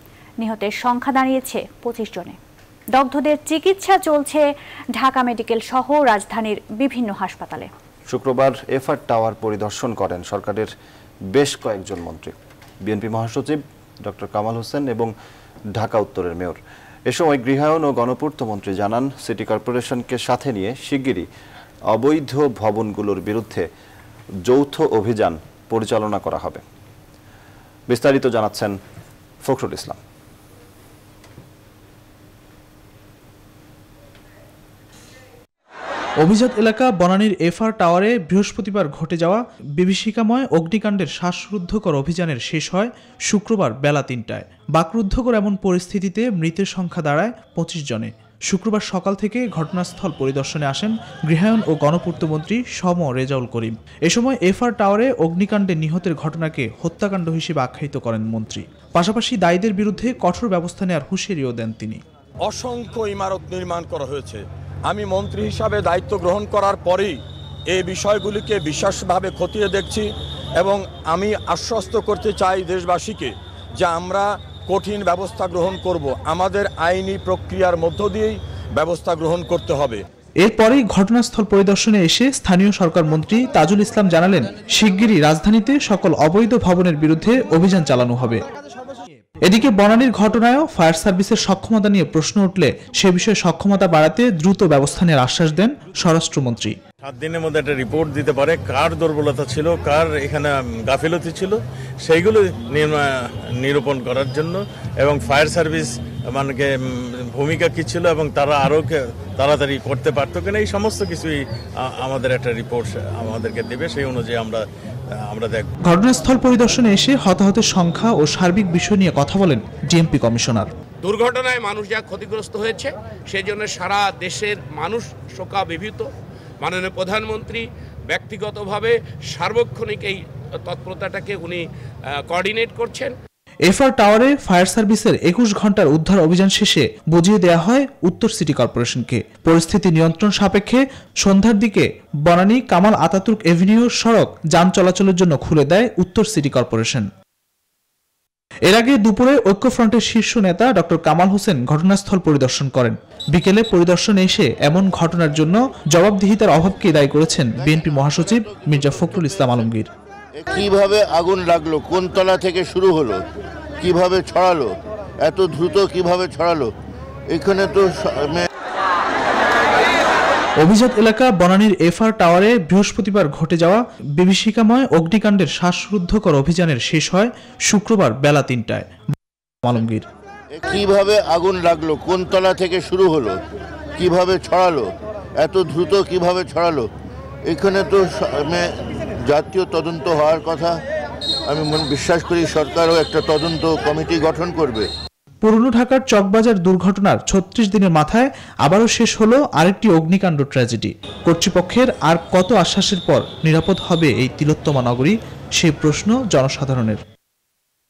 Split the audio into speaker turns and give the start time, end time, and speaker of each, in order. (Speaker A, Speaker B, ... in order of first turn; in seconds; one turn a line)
Speaker A: 0.4-2.4
Speaker A: 2.9-7.7
Speaker B: 8.1-10.7
Speaker B: 11.3-15.1
Speaker B: 15.8-21.3
Speaker B: 21.9-23.7
Speaker B: 24.5-26.6
Speaker B: 27.9-28.8
Speaker B: 29.4-30.0
Speaker C: 36.2-62.0
Speaker D: 62.4-80.0
Speaker C: 80.4-88.4
Speaker C: 89.5-96.8
Speaker E: 97.0-103.0
Speaker E: 103.6-114.6
Speaker E: 115.2-115.7
Speaker C: 115.9-120.7
Speaker F: 121.0-126.1
Speaker F: 126.6-133.2
Speaker C: 133.7-147.1
Speaker C: 148.7-159.9
Speaker G: 157.7-159.4
Speaker G: 160.4-163.2
Speaker G: 163.8-166.7
Speaker G: 167.3-168.5
Speaker C: 170.6-178.9
Speaker C: 179.6-180.1
Speaker G: 180.6-183.4
Speaker G: 184.0-186.9
Speaker G: 187.5-190.8
Speaker G: 191.5-194.9
Speaker C: 195.4-207.0